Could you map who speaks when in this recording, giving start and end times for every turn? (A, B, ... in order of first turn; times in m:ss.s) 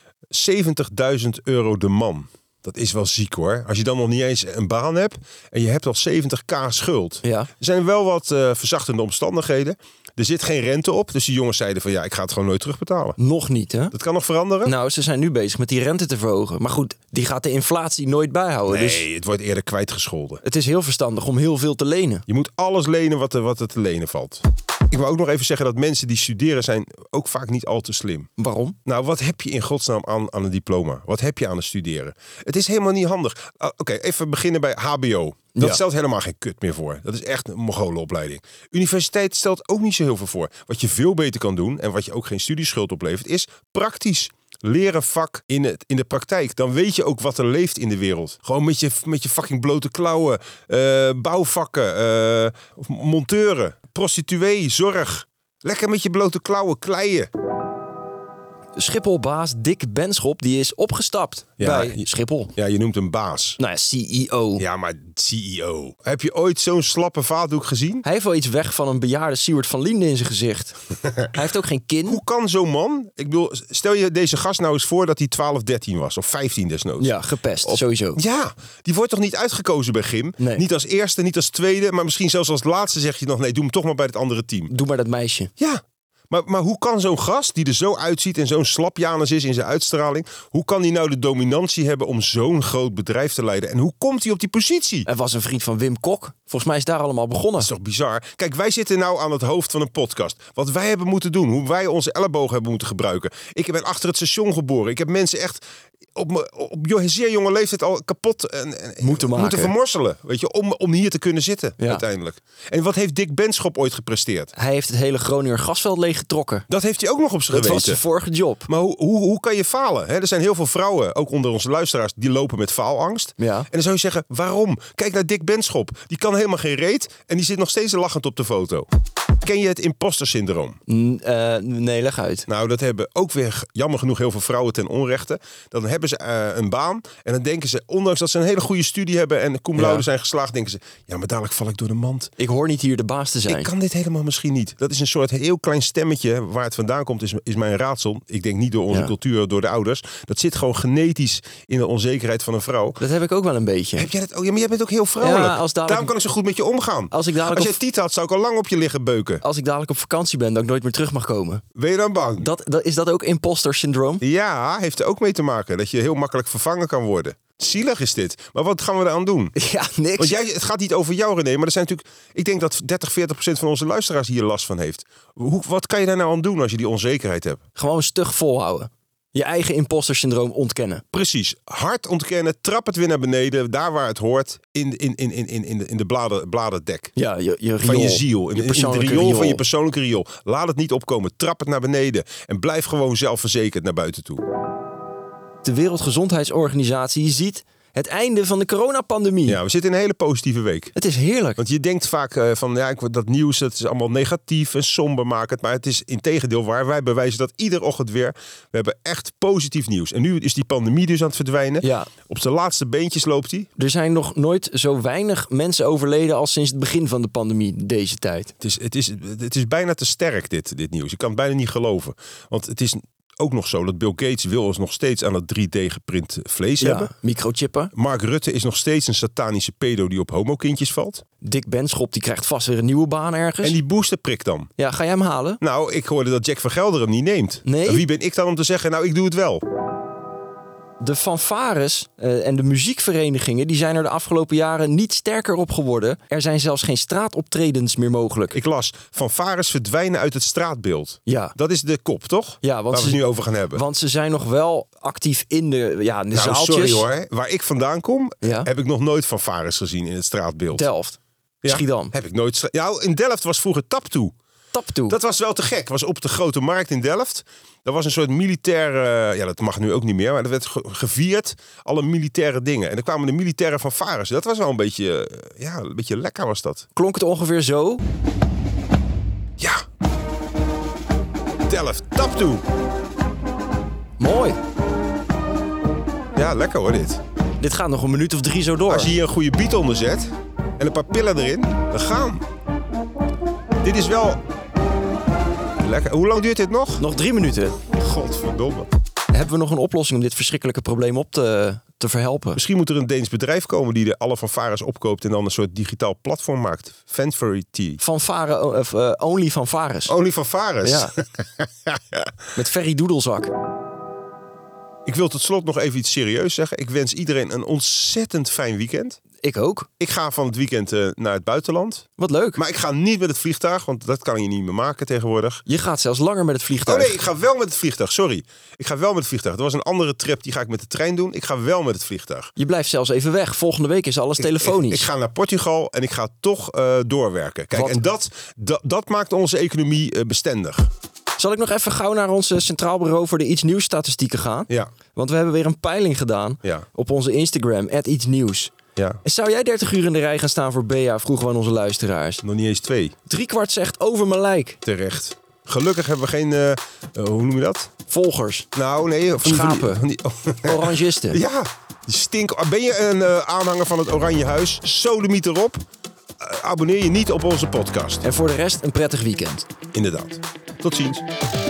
0:00.3-0:13.2 A
0:07.2-0:07.5 B
0:13.2-0:13.9 B
0:13.9-0:14.7 A
0:14.6-0:19.0 B
0:18.7-0:20.4 A
0:20.4-0:22.2 B
0:22.3-0:28.3 A
0:28.4-0:28.8 B
0:28.8-0:57.3 A
0:35.5-0:35.8 B
0:58.7-1:02.5 B
1:01.6-1:02.0 A
1:02.6-1:03.6 A
1:03.6-1:04.6 B
1:04.6-1:08.0 A
1:08.0-1:12.2 B
1:12.0-1:24.7 A
1:17.0-1:18.2 B
1:20.4-1:20.6 B
1:24.7-1:25.5 B
1:25.6-1:35.1 A
1:35.0-1:37.7 B
1:37.6-1:45.6 A
1:46.2-1:54.5 A
1:49.0-1:49.7 B
1:51.8-1:52.0 B
1:54.5-1:56.7 B
1:56.7-1:58.0 A
1:57.5-1:58.7 B
1:58.7-2:08.9 A
2:03.4-2:03.7 B
2:09.4-2:10.8 A
2:10.9-2:12.5 B
2:12.5-2:22.3 A
2:19.8-2:20.1 B
2:22.4-2:23.7 B
2:23.5-2:33.0 A
2:33.0-2:34.1 B
2:34.0-2:39.4 A
2:35.2-2:36.2 B
2:37.1-2:37.8 B
2:39.4-2:41.6 B
2:41.8-2:42.5 A
2:42.4-2:44.2 B
2:44.2-2:49.5 A
2:49.6-2:50.4 B
2:50.2-2:57.6 A
2:57.8-3:01.0 B
3:01.1-3:07.1 A
3:07.2-3:09.6 B
3:07.8-3:14.4 A
3:15.6-3:19.6 B
3:19.5-3:20.9 A
3:21.0-3:21.6 B
3:21.6-3:33.7 A
3:31.8-3:32.1 B
3:33.8-3:38.5 B
3:38.6-3:47.1 A
3:46.8-3:47.9 B
3:47.9-3:51.2 A
3:51.4-3:53.8 B
3:53.6-3:54.7 A
3:54.8-3:55.6 B
3:55.6-3:59.6 A
3:57.6-3:58.0 B
4:01.0-4:08.6 B
4:08.5-4:13.8 A
4:11.2-4:11.6 B
4:12.6-4:17.1 B
4:16.3-4:20.9 A
4:18.4-4:18.7 B
4:20.7-4:22.1 B
4:21.6-4:24.3 A
4:24.7-4:25.2 B
4:25.1-4:36.9 A
4:37.0-4:38.0 B
4:41.7-4:42.6 A
4:44.2-4:44.6 B
4:46.4-4:47.2 A
4:47.6-4:49.1 B
4:48.9-4:52.4 A
4:53.8-4:54.4 A
4:55.8-4:57.0 A
4:57.0-4:57.8 B
4:57.9-4:58.9 A
4:59.3-5:02.6 B
5:02.6-5:08.0 A
5:08.0-5:10.1 B
5:10.1-5:12.2 A
5:10.8-5:11.1 B
5:12.6-5:13.5 B
5:15.1-5:19.2 A
5:19.4-5:19.9 B
5:20.0-5:22.1 A
5:22.2-5:22.6 B
5:22.6-5:25.6 A
5:25.6-5:27.2 B
5:26.9-5:32.5 A
5:32.6-5:35.1 B
5:34.4-5:40.9 A
5:37.7-5:38.1 B
5:41.4-5:48.7 B
5:49.0-5:49.2 A
5:49.2-5:52.4 B
5:52.4-5:53.2 A
5:53.3-5:54.8 B
5:54.8-5:57.9 A
5:58.1-5:58.7 B
5:58.7-6:05.8 A
5:59.4-6:00.0 B
6:00.6-6:01.4 B
6:06.4-6:08.2 A
6:08.2-6:09.7 B
6:09.9-6:11.2 A